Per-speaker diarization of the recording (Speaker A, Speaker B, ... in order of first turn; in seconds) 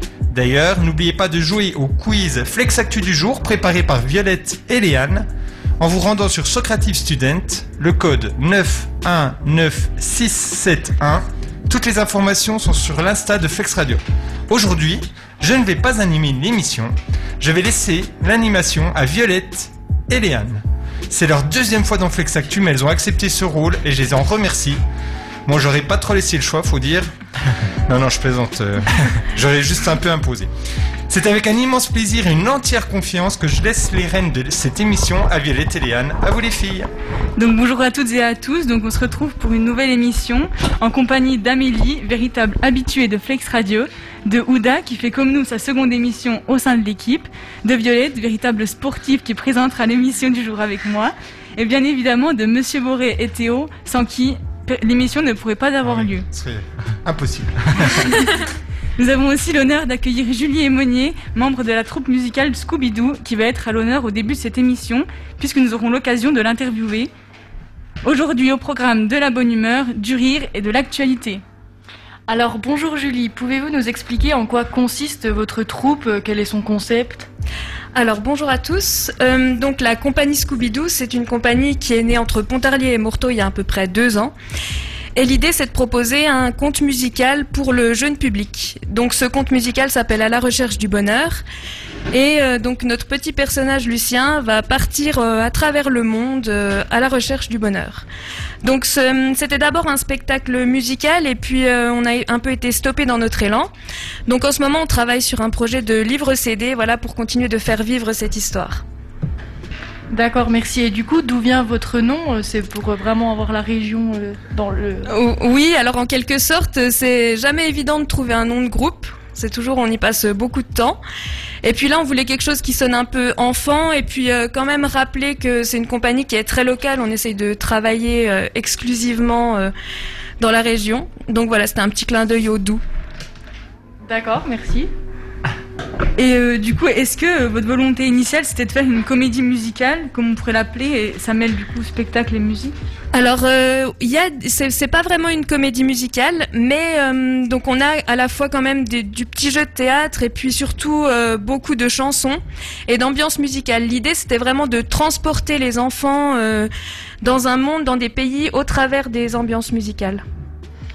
Speaker A: 0.3-5.3, 5.8-24.8, 25.5-27.1, 27.9-30.5, 31.1-36.9, 55.8-58.1
Speaker B: 37.4-56.3, 59.0-67.1, 68.0-71.4, 136.2-142.8
Speaker C: 72.3-77.3, 110.1-115.1, 134.0-134.9
Speaker D: 77.9-84.3, 85.2-91.4, 92.1-98.1, 98.6-103.7, 104.3-108.8, 115.1-121.0, 121.6-129.7, 130.4-132.8, 143.1-156.7, 157.2-160.2